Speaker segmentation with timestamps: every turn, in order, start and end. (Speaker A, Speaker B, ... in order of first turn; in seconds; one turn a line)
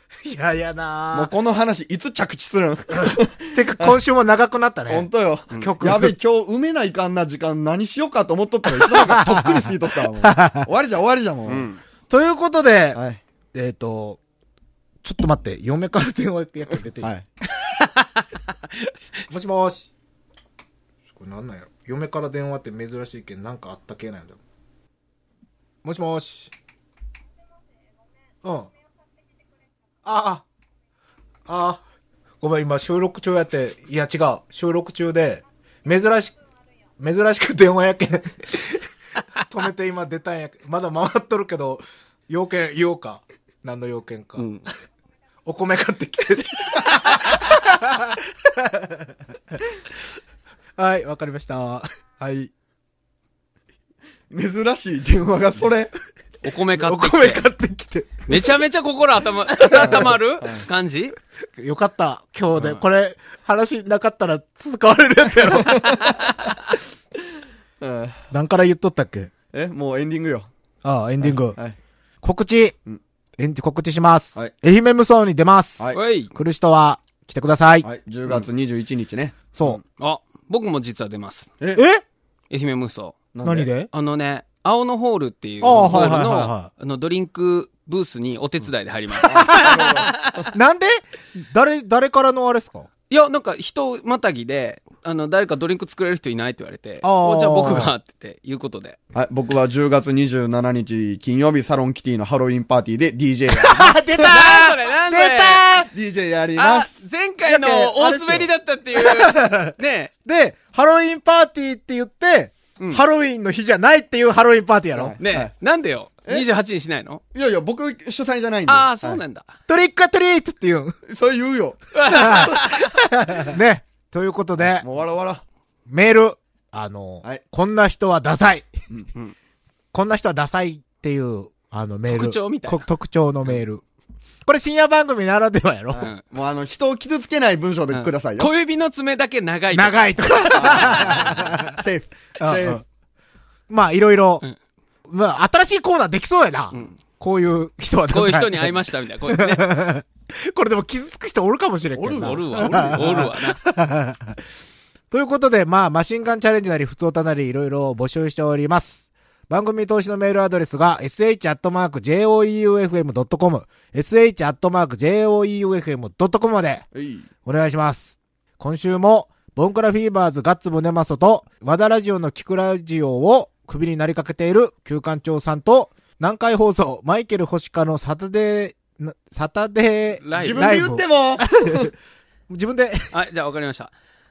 Speaker A: 0.2-1.3
Speaker B: 1.1-4.0
Speaker A: 3.0-6.2
Speaker B: 4.9-11.7
Speaker A: 8.8-9.7
Speaker A: 10.2-10.7
Speaker C: 11.5-11.8
Speaker A: 12.1-13.0
Speaker B: 12.9-13.2
Speaker A: 13.5-14.2
Speaker A: 15.0-17.1
Speaker A: 19.3-19.9
Speaker A: 21.1-24.4
Speaker A: 25.8-26.5
Speaker A: 28.4-28.7
Speaker A: 30.0-30.5
Speaker A: 31.5-31.8
Speaker A: 32.4-36.4
Speaker A: 37.0-44.5
Speaker C: 44.4-44.6
Speaker A: 45.5-49.6
Speaker A: 50.8-52.5
Speaker B: 54.3-55.9
Speaker C: 56.4-57.5
Speaker A: 56.8-58.5
Speaker C: 58.3-61.1
Speaker A: 59.5-60.1
Speaker B: 59.7-60.7
Speaker A: 61.6-66.5
Speaker B: 65.6-66.0
Speaker B: 67.8-68.2
Speaker A: 68.3-69.3
Speaker B: 69.5-70.5
Speaker A: 70.8-71.6
Speaker B: 71.2-71.8
Speaker A: 72.2-72.8
Speaker A: 73.4-77.9
Speaker C: 75.9-76.3
Speaker B: 77.8-79.6
Speaker A: 79.5-79.8
Speaker C: 80.0-81.5
Speaker A: 81.7-82.0
Speaker C: 82.5-83.3
Speaker B: 83.3-83.7
Speaker A: 83.4-83.9
Speaker C: 83.9-90.3
Speaker A: 85.6-86.7
Speaker B: 85.7-86.5
Speaker A: 89.2-90.0
Speaker B: 89.3-90.5
Speaker A: 90.5-92.9
Speaker C: 93.1-99.0
Speaker A: 97.0-97.9
Speaker B: 99.1-104.1
Speaker A: 103.5-105.9
Speaker C: 104.2-105.7
Speaker B: 105.9-106.9
Speaker C: 106.6-110.1
Speaker A: 107.5-115.2
Speaker B: 115.0-115.5
Speaker C: 115.2-117.2
Speaker B: 117.3-119.2
Speaker C: 118.7-119.5
Speaker A: 119.7-121.0
Speaker B: 121.1-122.7
Speaker C: 121.9-122.9
Speaker A: 122.1-124.9
Speaker B: 124.6-125.4
Speaker A: 125.9-128.7
Speaker A: 129.9-133.8
Speaker C: 132.1-132.8
Speaker A: 134.4-136.1
Speaker C: 135.9-136.2
Speaker B: 136.0-138.5
Speaker C: 137.9-141.5
Speaker A: 139.7-141.8
Speaker B: 140.6-142.8
Speaker A: 142.4-142.8
Speaker A: 143.7-144.4
Speaker A: 145.1-154.4
Speaker C: 146.7-147.0
Speaker C: 148.1-149.7
Speaker B: 152.0-153.3
Speaker C: 152.2-153.6
Speaker A: 155.1-166.9
Speaker B: 166.9-167.3
Speaker A: 167.4-181.9
Speaker C: 180.2-180.8
Speaker B: 180.4-181.9
Speaker A: 182.5-183.1
Speaker C: 183.1-183.9